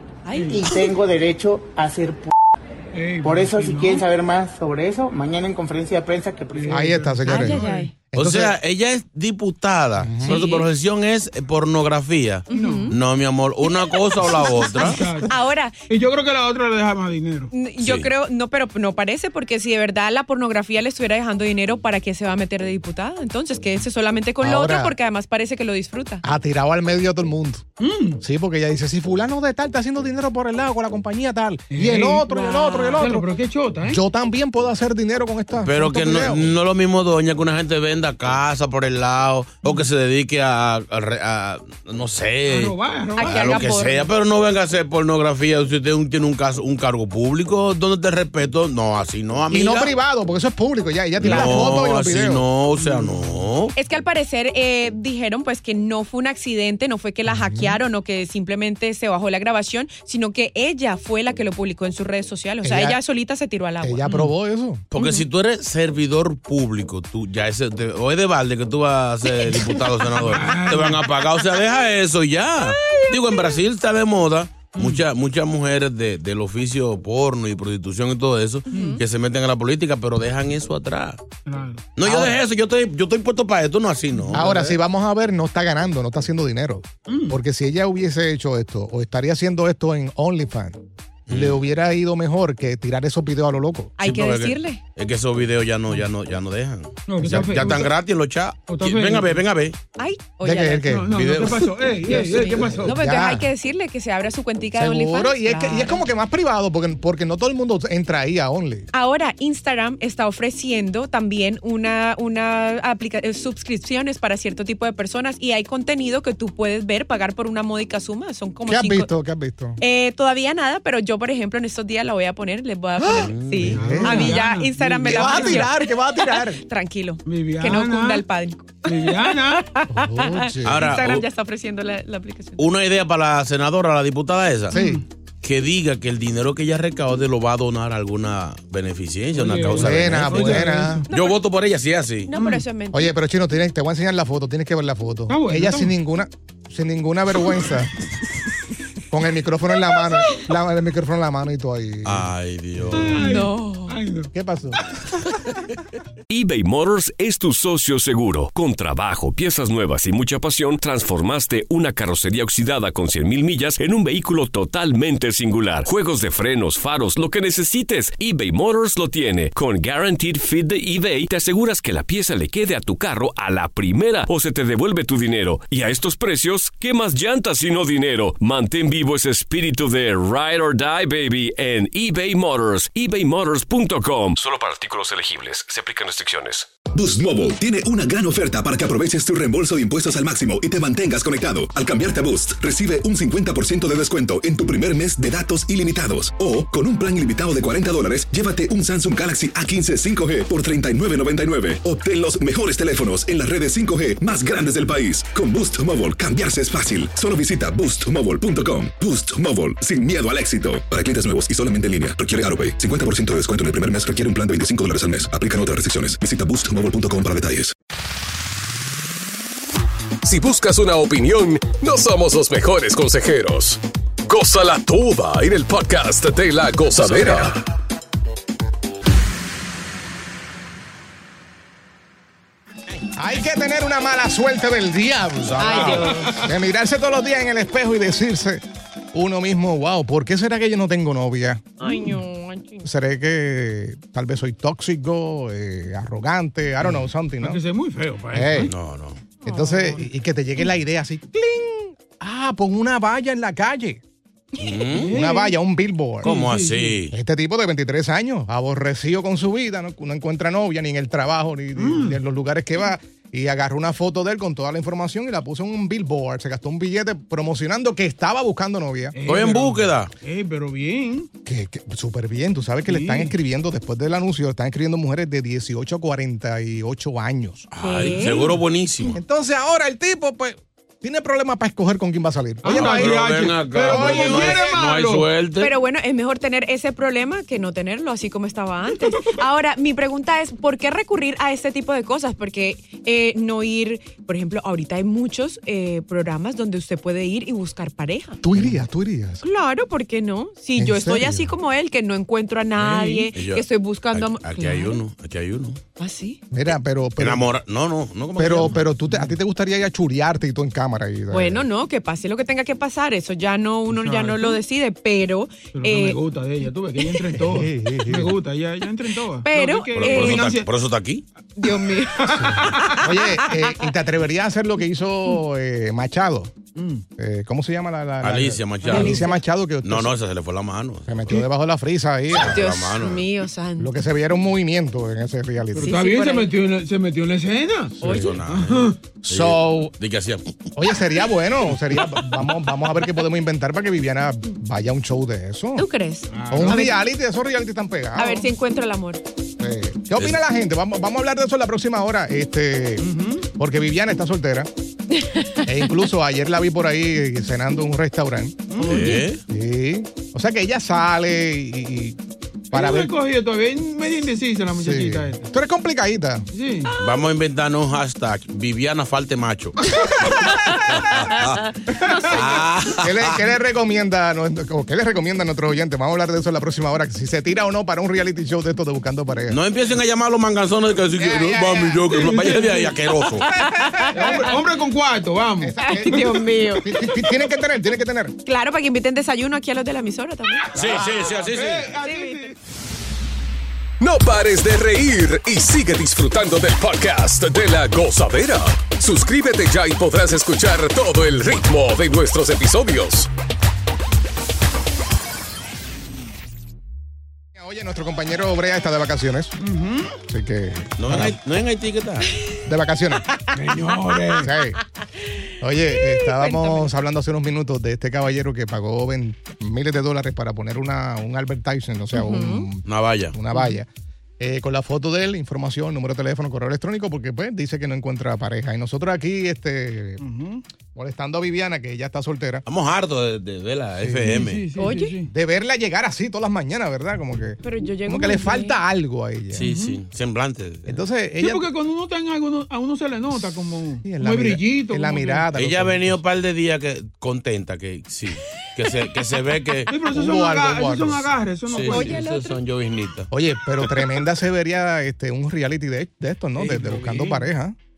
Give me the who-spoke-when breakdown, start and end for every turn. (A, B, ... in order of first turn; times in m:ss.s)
0:00.2-0:00.6 A
0:00.3-0:00.6 B
0:00.5-0:02.3 C
0:02.9-0:04.1 B
0:03.2-0:06.8 C
0:06.5-0:08.0 B
0:06.7-0:08.6 D
0:07.2-0:07.9 A
0:08.2-0:15.0 E
0:10.0-0:10.4 D
0:10.2-0:10.7 A
0:12.5-0:13.0 A
0:12.5-0:13.0 B
0:13.7-0:15.8 A
0:14.7-0:15.3 B
0:15.9-0:17.5 B
0:17.5-0:26.2 A
0:17.8-0:18.1 E
0:24.4-0:25.0 D
0:26.2-0:27.6 D
0:27.8-0:28.2 B
0:28.2-0:33.3 D
0:31.7-0:32.2 B
0:32.2-0:33.1 A
0:33.0-0:34.0 B
0:33.9-0:36.5 D
0:35.6-0:49.9 E
0:42.5-0:43.9 B
0:43.2-0:44.1 A
0:49.5-0:52.4 D
0:51.2-0:53.7 E
0:52.8-0:53.5 B
0:53.8-1:04.1 A
0:57.3-0:57.8 D
1:02.6-1:03.0 D
1:03.8-1:04.8 D
1:04.0-1:04.3 B
1:04.9-1:21.2 E
1:05.0-1:05.2 A
1:10.2-1:11.1 B
1:14.7-1:15.0 B
1:18.7-1:19.0 A
1:18.7-1:19.0 B
1:21.4-1:21.9 B
1:22.0-1:24.8 E
1:22.0-1:22.4 D
1:24.2-1:24.4 B
1:24.3-1:33.9 D
1:27.1-1:27.4 B
1:31.3-1:31.6 E
1:34.0-1:34.8 A
1:34.0-1:39.8 E
1:37.1-1:38.0 B
1:38.7-1:39.4 B
1:40.0-1:41.0 A
1:40.4-1:41.2 D
1:40.9-1:43.0 B
1:41.1-1:41.6 E
1:42.1-1:46.0 A
1:42.7-1:43.5 D
1:44.7-1:48.9 D
1:48.9-1:59.1 A
1:58.7-1:59.8 D
1:59.8-2:12.7 A
2:03.0-2:04.4 D
2:03.1-2:03.7 E
2:03.7-2:05.7 B
2:05.0-2:06.6 D
2:07.2-2:08.2 B
2:08.8-2:09.7 B
2:09.9-2:10.9 D
2:10.6-2:11.2 E
2:12.6-2:14.8 E
2:14.7-2:15.0 D
2:14.7-2:15.0 B
2:15.4-2:22.3 E
2:19.3-2:21.1 B
2:19.8-2:21.1 D
2:21.1-2:21.4 A
2:22.3-2:23.1 A
2:22.3-2:22.6 B
2:22.9-2:27.9 D
2:25.3-2:26.0 B
2:29.1-2:32.3 D
2:32.0-2:33.2 E
2:32.9-2:34.3 B
2:33.2-2:34.0 A
2:34.3-2:34.8 D
2:36.3-3:06.7 F
3:06.9-3:37.7 G
3:40.2-3:47.6 H
3:47.0-3:47.3 D
3:53.2-3:58.6 D
3:55.4-3:56.1 E
3:55.6-3:56.3 A
3:56.1-3:56.5 B
3:59.1-4:01.9 D
4:01.8-4:02.9 A
4:02.8-4:07.6 D
4:07.4-4:08.7 B
4:08.3-4:08.7 D
4:08.7-4:09.2 E
4:09.4-4:10.0 A
4:09.4-4:14.0 D
4:14.6-4:15.1 E
4:14.9-4:15.6 B
4:15.0-4:16.4 D
4:16.2-4:17.0 B
4:16.2-4:17.1 E
4:17.1-4:29.2 D
4:21.8-4:22.2 B
4:29.1-4:31.3 B
4:29.2-4:30.1 E
4:31.4-4:37.7 D
4:32.9-4:33.4 B
4:37.7-4:39.2 E
4:37.8-4:38.5 A
4:39.1-4:43.3 D
4:42.6-4:45.3 B
4:42.6-4:45.7 E
4:43.8-4:44.7 D
4:45.6-4:58.4 A
4:58.4-4:59.4 D
4:59.4-5:05.0 A
5:00.8-5:01.5 D
5:02.9-5:03.2 B
5:03.3-5:05.8 E
5:06.0-5:06.4 A
5:06.5-5:07.5 D
5:07.2-5:08.8 E
5:08.4-5:11.7 D
5:11.3-5:16.2 A
5:13.9-5:14.6 B
5:15.7-5:20.7 B
5:17.4-5:18.4 D
5:19.4-5:20.6 A
5:19.9-5:21.2 E
5:21.6-5:23.8 A
5:21.6-5:23.0 B
5:22.3-5:26.6 D
5:26.8-5:27.0 B
5:27.2-5:30.1 D
5:28.2-5:29.2 E
5:28.9-5:29.4 A
5:29.8-5:31.3 E
5:31.1-5:32.6 D
5:32.4-5:33.3 E
5:32.4-5:33.9 A
5:33.8-5:35.9 D
5:35.8-5:39.0 B
5:35.8-5:36.5 A
5:38.0-5:38.3 A
5:38.0-5:38.3 D
5:38.0-5:40.5 E
5:39.2-5:39.9 D
5:40.8-5:45.9 D
5:45.8-5:47.0 A
5:46.3-5:46.9 B
5:46.5-5:48.5 D
5:48.2-5:49.2 A
5:49.6-5:53.1 D
5:53.0-5:53.5 B
5:53.6-5:54.7 D
5:55.2-5:55.6 A
5:55.6-5:58.9 D
5:58.7-5:59.3 B
5:58.8-5:59.4 E
5:59.5-6:02.2 D
6:02.7-6:03.1 D
6:02.7-6:05.5 B
6:04.8-6:06.5 D
6:06.5-6:07.0 B
6:07.0-6:09.8 E
6:11.0-6:11.6 E
6:12.2-6:13.4 E
6:12.9-6:19.6 D
6:19.5-6:23.5 E
6:21.2-6:22.1 D
6:22.0-6:23.0 B
6:23.5-6:24.4 A
6:23.7-6:24.4 D
6:24.1-6:26.2 B
6:25.6-6:28.4 D
6:25.8-6:26.9 A
6:28.4-6:30.7 A
6:30.8-6:31.9 E
6:30.8-6:31.2 D
6:30.8-6:32.6 B
6:32.0-6:32.5 A
6:34.0-6:43.3 H
6:47.5-6:49.6 D
6:49.6-6:50.2 B
6:50.3-6:51.4 D
6:51.0-6:52.4 E
6:52.6-6:53.2 D
6:53.5-6:54.6 B
6:54.4-6:54.8 D
6:55.6-7:03.9 D
6:56.0-6:56.9 A
7:02.1-7:02.7 A
7:02.9-7:03.4 E
7:04.4-7:10.2 D
7:10.2-7:10.6 B
7:11.0-7:12.6 D
7:12.7-7:14.7 E
7:14.0-7:14.3 D
7:14.2-7:15.3 B
7:14.8-7:15.2 A
7:15.3-7:19.7 D
7:17.6-7:18.8 A
7:19.5-7:21.0 E
7:19.6-7:20.0 B
7:20.9-7:21.7 D
7:21.4-7:25.5 B
7:24.0-7:26.2 D
7:25.5-7:29.9 E
7:29.9-7:32.3 B
7:30.0-7:31.3 D
7:31.7-7:33.3 E
7:31.9-7:32.6 A
7:33.3-7:37.8 D
7:36.6-7:37.5 B